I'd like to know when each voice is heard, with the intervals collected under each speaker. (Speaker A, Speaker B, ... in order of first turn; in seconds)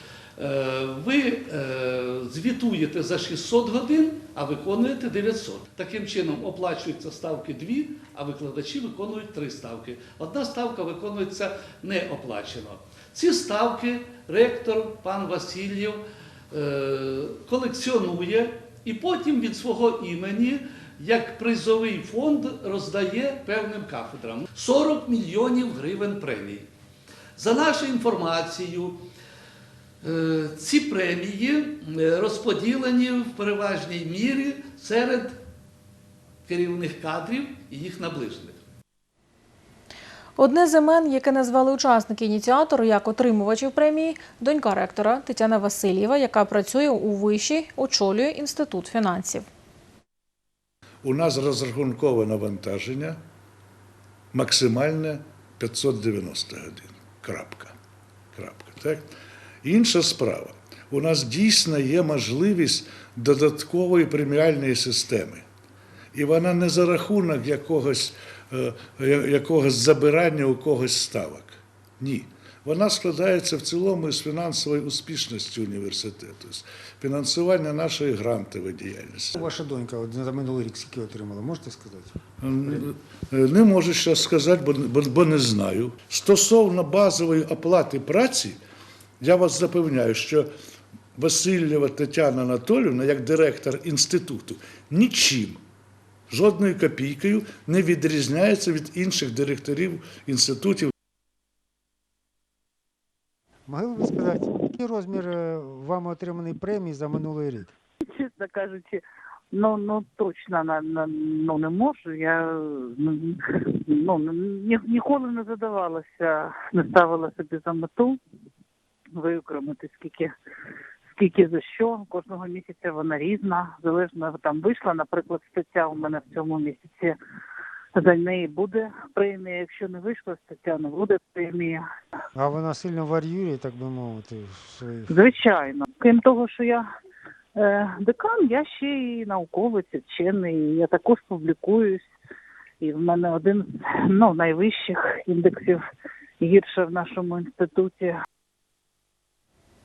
Speaker A: 0.4-26.7, 27.4-29.0, 30.0-35.4, 36.5-38.6
Speaker B: 40.4-49.5
Speaker C: 51.0-53.2, 54.3-57.7, 58.4-59.1, 59.6-65.5, 66.1-79.5, 82.4-88.6, 89.2-90.5, 91.2-95.6, 96.3-100.9
Speaker D: 79.3-82.2, 103.7-107.7, 132.3-135.1
Speaker E: 108.1-109.0, 109.5-118.2, 119.2-120.3, 121.1-127.2, 127.9-131.8, 135.1-136.8, 137.6-142.1, 142.8-145.8, 146.4-148.2